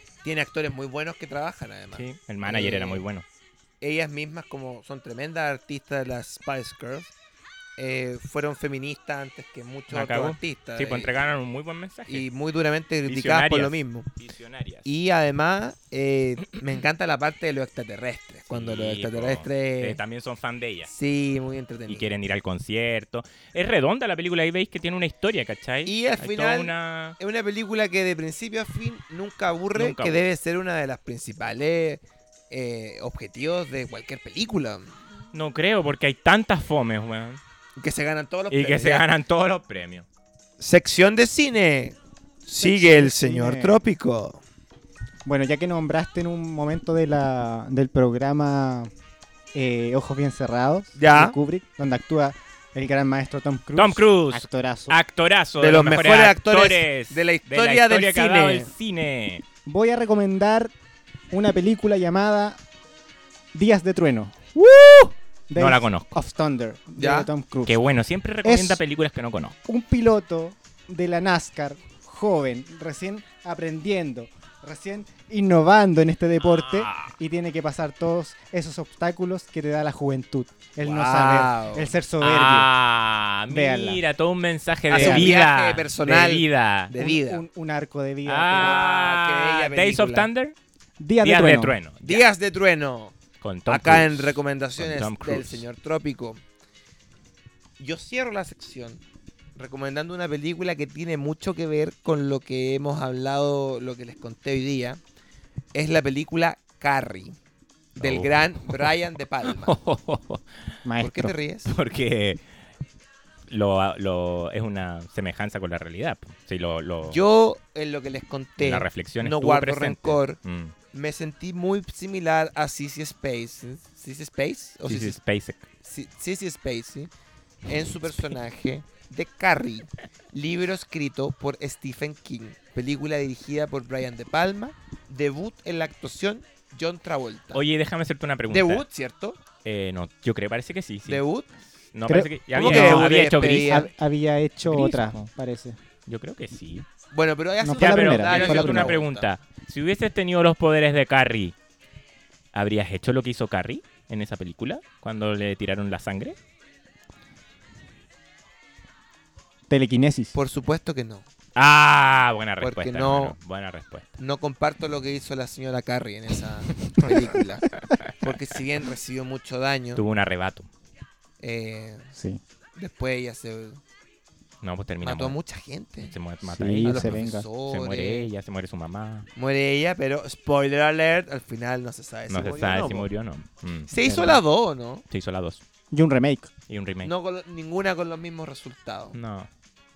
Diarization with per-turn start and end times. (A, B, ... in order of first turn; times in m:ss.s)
0:00.2-0:03.0 A
0:01.9-0:03.2 B
0:03.8-0:07.1 A
0:07.8-0:11.2 A
0:09.9-0:12.3 B
0:12.1-0:14.1 A
0:13.1-0:14.9 B
0:14.8-0:20.0 A
0:18.5-0:20.9 B
0:20.9-0:22.1 A
0:21.9-0:27.2 B
0:25.9-0:35.0 A
0:29.8-0:30.2 B
0:35.3-0:37.4 B
0:37.8-0:39.1 A
0:38.5-0:40.1 B
0:40.6-0:44.4 A
0:42.6-0:43.8 C
0:45.2-0:48.9 C
0:49.5-0:55.0 C
0:51.0-0:51.4 A
0:53.8-0:59.4 B
0:55.6-0:58.7 A
0:59.7-1:00.7 C
1:01.3-1:02.6 C
1:03.5-1:04.6 C
1:05.5-1:07.8 C
1:05.6-1:06.1 B
1:07.0-1:07.3 A
1:07.7-1:09.6 B
1:08.4-1:08.8 C
1:09.7-1:22.7 C
1:16.4-1:17.1 B
1:20.8-1:21.9 A
1:22.2-1:26.9 B
1:23.5-1:24.0 C
1:24.9-1:27.4 A
1:24.9-1:25.3 C
1:26.9-1:28.8 C
1:28.3-1:30.6 B
1:28.5-1:30.3 A
1:31.0-1:31.8 C
1:31.2-1:32.2 B
1:32.0-1:33.2 A
1:33.4-1:35.6 B
1:33.7-1:36.4 A
1:37.8-1:39.0 A
1:39.6-1:45.0 A
1:45.7-1:47.4 A
1:48.0-1:48.9 B
1:48.0-1:49.7 A
1:49.4-1:50.5 B
1:50.8-1:51.3 C
1:51.0-1:51.7 A
1:51.7-1:52.4 B
1:53.5-1:57.2 B
1:57.1-2:00.4 A
1:58.6-2:00.8 B
2:00.9-2:05.2 A
2:04.8-2:05.7 B
2:05.8-2:07.1 A
2:07.7-2:17.6 A
2:17.5-2:18.8 B
2:18.5-2:19.4 A
2:19.6-2:21.2 B
2:21.1-2:21.5 A
2:21.9-2:23.8 B
2:22.1-2:25.8 C
2:22.5-2:23.9 A
2:24.6-2:25.3 B
2:26.1-2:26.9 B
2:27.1-2:29.3 A
2:27.6-2:29.0 C
2:27.8-2:31.6 B
2:32.5-2:36.4 B
2:39.7-2:40.4 C
2:40.3-2:41.3 A
2:41.6-2:44.1 B
2:42.6-2:43.4 A
2:44.2-2:50.0 A
2:50.0-2:50.7 B
2:51.4-2:52.1 A
2:52.2-2:52.4 C
2:52.8-2:53.8 A
2:54.6-2:55.4 B
2:55.0-2:56.2 A
2:56.0-2:59.3 B
2:56.5-2:57.5 C
2:56.8-2:58.3 A
2:59.4-3:03.1 A
3:02.3-3:04.3 B
3:03.9-3:05.0 A
3:04.0-3:04.4 C
3:05.1-3:05.6 B
3:05.9-3:06.5 C
3:06.7-3:07.1 B
3:07.0-3:09.2 A
3:09.1-3:09.5 B